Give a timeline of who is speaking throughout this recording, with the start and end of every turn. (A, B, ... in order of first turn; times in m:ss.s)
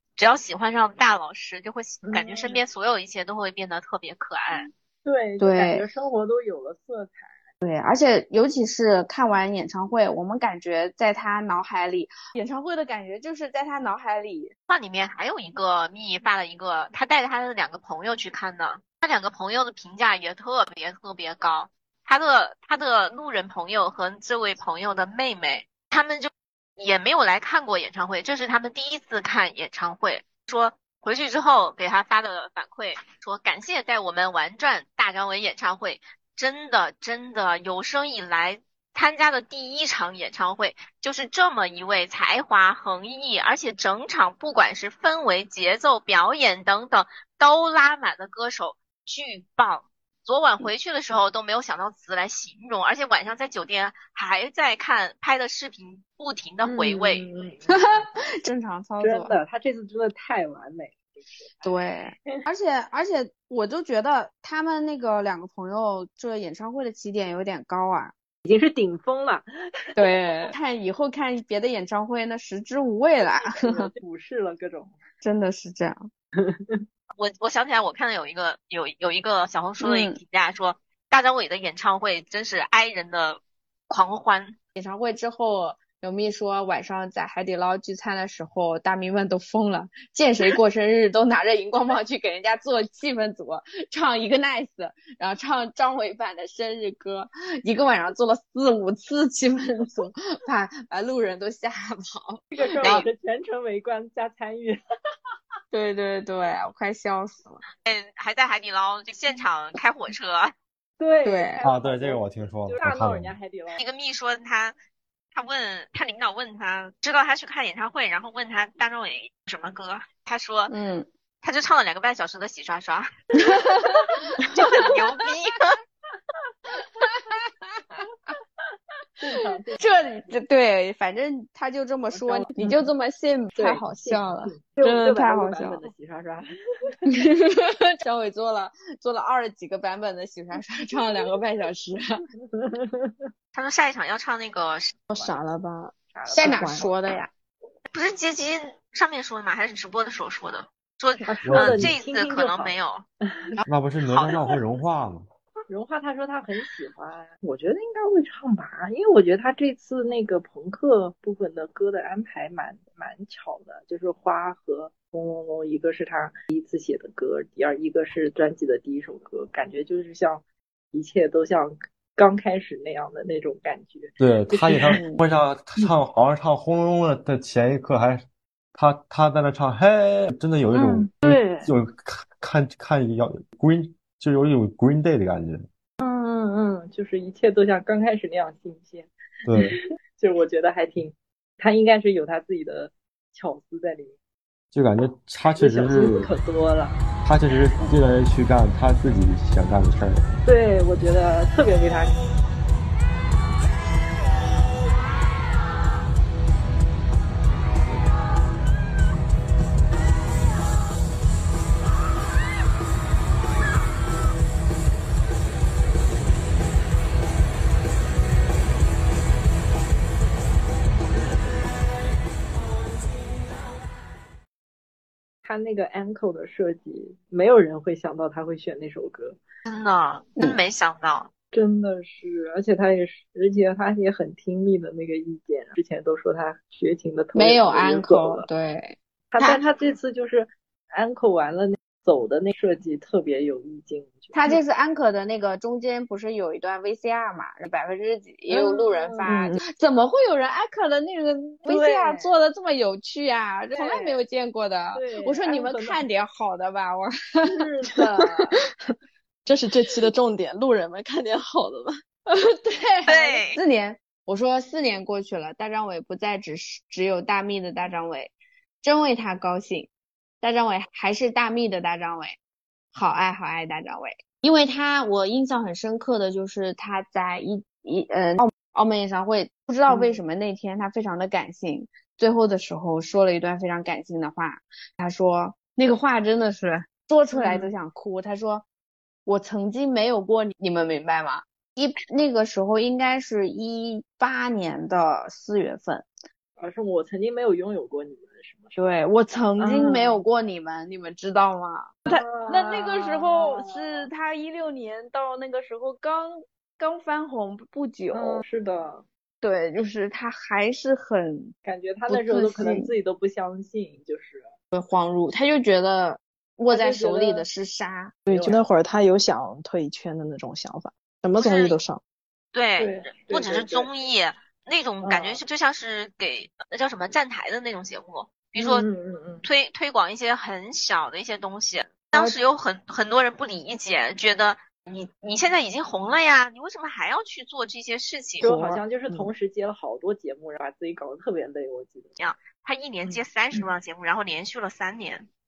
0:00.2-0:04.7 A
0:02.0-0:02.6 B
0:05.0-0:07.4 B
0:05.4-0:05.8 C
0:07.6-0:14.5 C
0:14.7-0:57.3 A
0:56.6-0:58.1 B
0:57.7-0:59.4 C
0:59.0-1:01.8 B
1:01.6-1:08.1 C
1:08.4-1:09.5 B
1:10.0-1:13.9 C
1:13.4-1:15.0 B
1:15.2-1:16.1 C
1:16.4-1:16.8 B
1:17.2-1:24.6 A
1:19.8-1:20.2 C
1:24.8-1:43.0 C
1:42.5-1:44.8 B
1:45.7-1:47.6 C
1:47.8-1:50.5 A
1:51.0-1:53.8 B
1:51.2-1:51.6 C
1:51.6-1:53.4 D
1:53.8-1:54.8 A
1:55.3-2:00.7 A
2:00.7-2:01.1 C
2:01.4-2:03.1 A
2:03.4-2:04.0 C
2:04.5-2:05.8 A
2:07.0-2:07.9 C
2:09.2-2:10.2 B
2:09.8-2:15.8 C
2:12.1-2:12.8 B
2:13.6-2:17.0 B
2:17.1-2:22.0 C
2:22.5-2:23.3 B
2:23.5-2:25.0 A
2:25.1-2:26.8 E
2:26.1-2:26.9 B
2:26.3-2:27.3 C
2:27.9-2:33.0 A
2:31.2-2:33.6 B
2:31.5-2:31.9 D
2:33.6-2:34.3 A
2:33.7-2:35.3 D
2:35.7-2:55.0 B
2:54.2-2:58.2 D
2:54.9-2:55.2 C
2:58.8-3:05.7 D
3:01.2-3:01.6 B
3:06.0-3:14.2 B
3:09.4-3:09.8 D
3:14.7-3:16.3 D
3:15.6-3:17.0 B
3:17.2-3:20.3 D
3:20.4-3:22.2 B
3:45.4-3:49.4 B
3:49.7-3:51.3 A
3:51.5-3:58.5 B
3:57.3-3:59.6 C
3:59.3-4:04.6 B
4:04.3-4:17.6 C
4:08.5-4:09.3 B
4:09.3-4:09.6 E
4:11.7-4:12.3 B
4:13.7-4:14.2 B
4:14.9-4:16.0 B
4:17.4-4:18.5 B
4:19.5-4:22.0 E
4:22.3-4:29.9 C
4:23.1-4:23.6 A
4:30.4-4:32.4 C
4:32.9-4:48.6 C
4:39.9-4:40.2 B
4:47.3-4:47.7 B
4:49.3-4:56.1 C
4:56.6-4:58.7 B
4:58.8-5:08.4 C
4:59.6-5:00.2 B
5:02.1-5:04.1 B
5:08.1-5:09.0 B
5:09.4-5:11.6 C
5:11.6-5:14.5 B
5:12.1-5:12.9 C
5:14.7-5:18.2 C
5:16.7-5:17.5 B
5:18.3-5:22.0 E
5:18.3-5:18.6 B
5:21.4-5:21.8 A
5:22.5-5:28.9 A
5:22.8-5:23.9 B
5:25.0-5:25.4 B
5:28.6-5:29.4 B
5:29.4-5:38.5 A
5:32.1-5:32.4 B
5:38.4-5:39.3 E
5:38.4-5:42.2 B
5:42.2-5:45.3 A
5:43.0-5:43.7 B